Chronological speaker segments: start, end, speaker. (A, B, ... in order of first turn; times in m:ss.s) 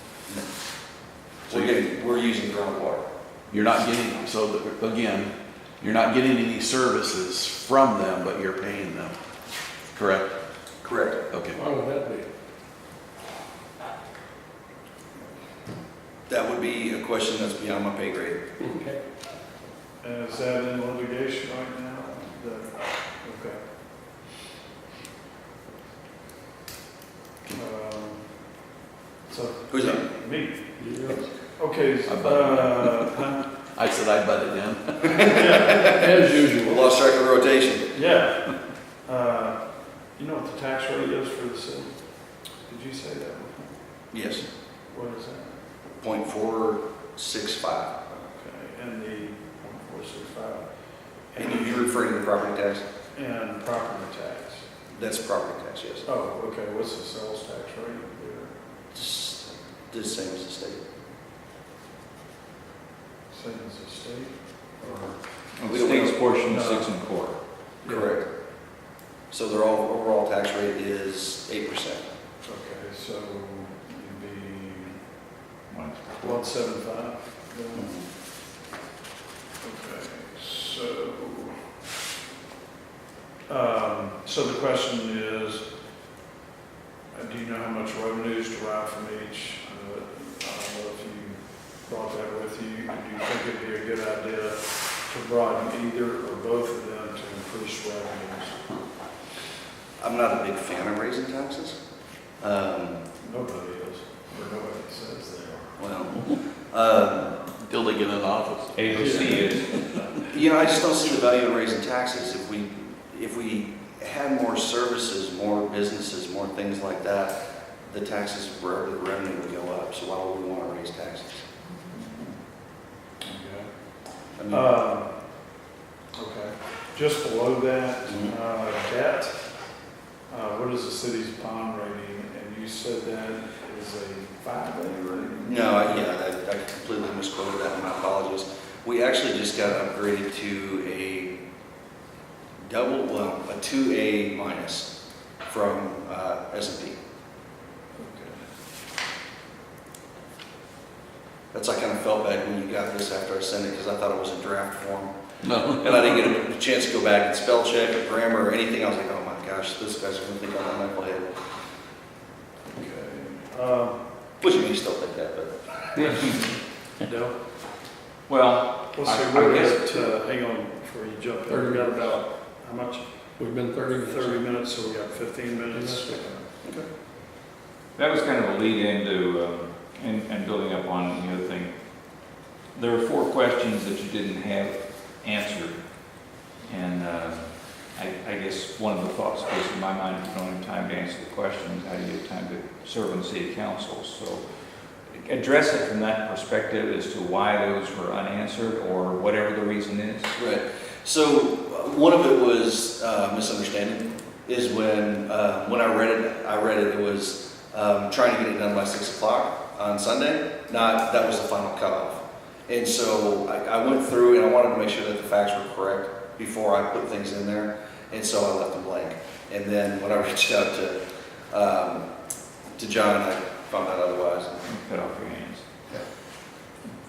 0:01.5-0:03.0 A
0:03.5-0:09.1 B
0:09.9-0:10.3 B
0:10.8-0:11.2 A
0:11.3-0:11.6 B
0:11.5-0:12.3 C
0:16.3-0:18.4 A
0:18.6-0:19.0 C
0:20.0-0:23.6 D
0:27.5-0:28.6 D
0:29.3-0:33.4 D
0:29.7-0:30.0 A
0:30.8-0:31.4 C
0:32.0-0:33.1 B
0:33.7-0:35.3 B
0:35.1-0:37.9 A
0:35.2-0:35.9 D
0:35.8-0:36.9 C
0:37.9-0:43.8 D
0:44.1-0:44.5 A
0:44.9-0:45.6 D
0:46.0-0:48.0 A
0:48.2-0:52.1 D
0:51.4-0:52.8 A
0:53.1-0:54.6 D
0:54.9-0:56.1 A
0:56.0-0:58.6 D
0:58.9-1:00.8 A
1:03.3-1:05.2 D
1:05.5-1:07.4 E
1:05.7-1:06.2 A
1:06.5-1:06.9 D
1:07.8-1:08.1 D
1:07.8-1:08.3 A
1:09.3-1:12.0 A
1:12.4-1:15.0 D
1:15.7-1:16.5 E
1:16.2-1:17.9 D
1:17.8-1:18.1 A
1:19.6-1:21.7 D
1:23.5-1:25.7 D
1:27.1-1:38.7 D
1:40.0-1:41.8 A
1:42.4-1:43.0 A
1:43.2-1:45.8 D
1:45.8-1:47.4 A
1:47.6-1:50.0 B
1:48.7-1:49.8 E
1:48.9-1:50.2 D
1:50.2-2:01.3 A
2:03.2-2:03.7 D
2:04.4-2:04.7 A
2:04.5-2:05.1 D
2:06.1-2:09.4 D
2:08.1-2:08.3 A
2:10.3-2:16.0 D
2:15.4-2:21.3 A
2:22.6-2:24.9 A
2:25.4-2:27.0 A
2:28.0-2:28.4 D
2:31.5-2:35.1 A
2:35.4-2:36.1 B
2:35.6-2:41.3 A
2:42.8-2:44.0 D
2:44.4-2:46.3 A
2:47.0-2:47.4 D
2:48.3-2:50.0 E
2:48.9-2:53.3 D
2:51.5-2:52.1 C
2:53.4-2:54.5 C
2:53.9-2:56.5 D
2:55.7-2:56.4 C
2:58.0-3:01.7 E
3:02.7-3:05.8 E
3:06.6-3:14.4 E
3:15.1-3:20.3 E
3:20.3-3:41.0 A
3:41.5-3:42.1 A
3:42.8-3:44.6 A
3:44.6-3:45.6 E